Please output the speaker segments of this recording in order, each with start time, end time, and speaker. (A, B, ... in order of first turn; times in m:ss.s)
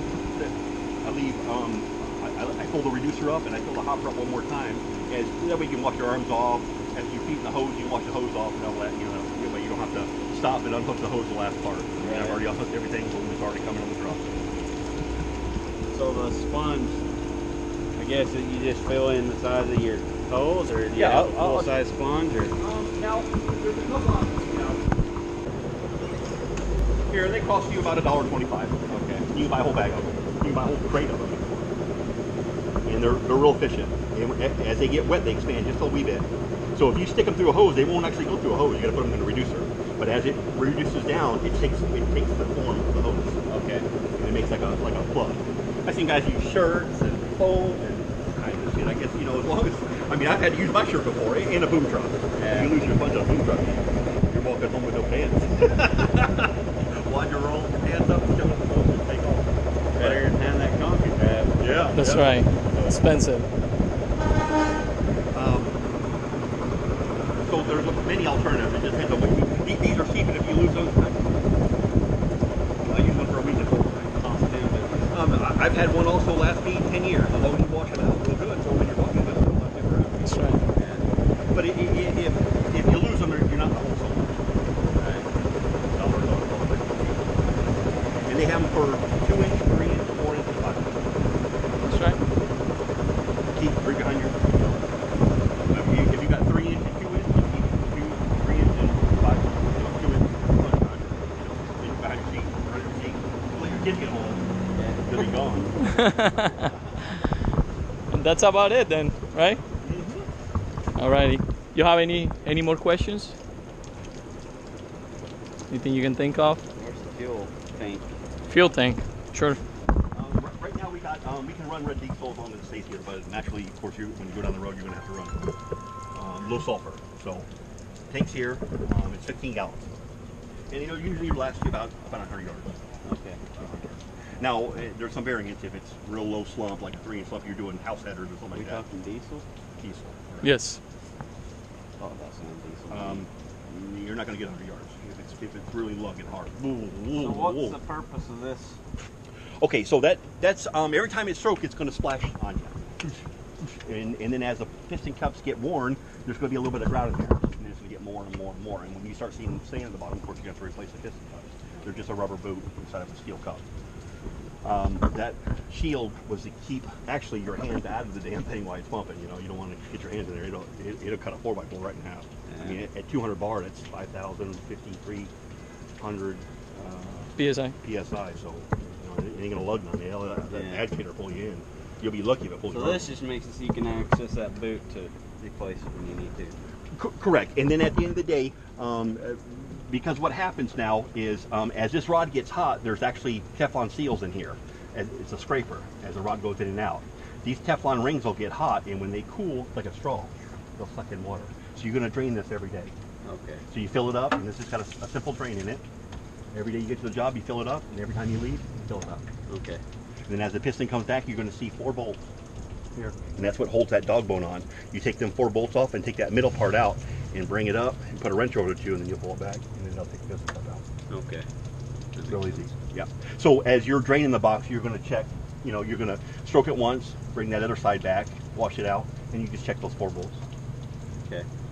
0:00.3-0:14.3 A
0:12.0-0:12.4 B
0:15.9-0:17.0 B
0:18.0-0:22.6 B
0:21.0-0:21.7 A
0:22.6-0:24.9 A
0:27.1-0:31.7 A
0:28.9-0:29.3 B
0:32.8-0:43.4 A
0:43.5-0:43.8 B
0:44.2-1:00.2 A
0:52.4-0:52.7 B
0:59.9-1:01.6 B
1:01.6-1:03.0 A
1:02.0-1:03.5 C
1:05.3-1:05.7 A
1:07.4-1:11.2 A
1:12.8-1:14.1 A
1:14.1-1:15.1 B
1:15.1-1:20.4 A
1:20.2-1:20.6 C
1:20.6-1:21.0 B
1:21.5-1:24.5 A
1:24.9-1:25.3 B
1:25.7-1:27.7 A
1:28.2-1:31.1 A
1:31.8-1:32.2 C
1:33.5-1:34.8 A
1:35.6-1:44.4 A
1:44.7-1:45.0 B
1:45.0-1:45.7 A
1:45.8-1:47.2 C
1:48.1-1:49.6 C
1:49.8-1:50.3 A
1:51.0-1:53.4 C
1:55.7-1:56.6 C
1:56.7-1:58.2 B
1:58.5-1:59.6 C
2:00.1-2:05.4 A
2:06.1-2:07.5 A
2:08.1-2:09.9 A
2:10.7-2:12.8 A
2:13.0-2:13.4 B
2:13.5-2:18.8 A
2:18.5-2:19.4 B
2:19.8-2:20.5 A
2:20.4-2:20.8 C
2:22.0-2:23.2 B
2:22.9-2:27.8 A
2:27.2-2:28.8 B
2:29.6-2:43.6 A
2:44.6-2:55.3 A
2:52.5-2:52.8 B
2:56.0-3:03.1 A
2:57.4-2:57.8 C
3:00.5-3:00.8 B
3:02.7-3:06.6 B
3:06.9-3:23.0 A
3:23.2-3:23.6 B
3:23.7-3:25.8 A
3:26.5-3:29.2 A
3:29.5-3:29.8 B
3:30.3-3:32.2 A
3:33.0-3:40.8 A
3:41.1-3:41.5 B
3:42.1-3:42.7 B
3:42.2-3:50.4 A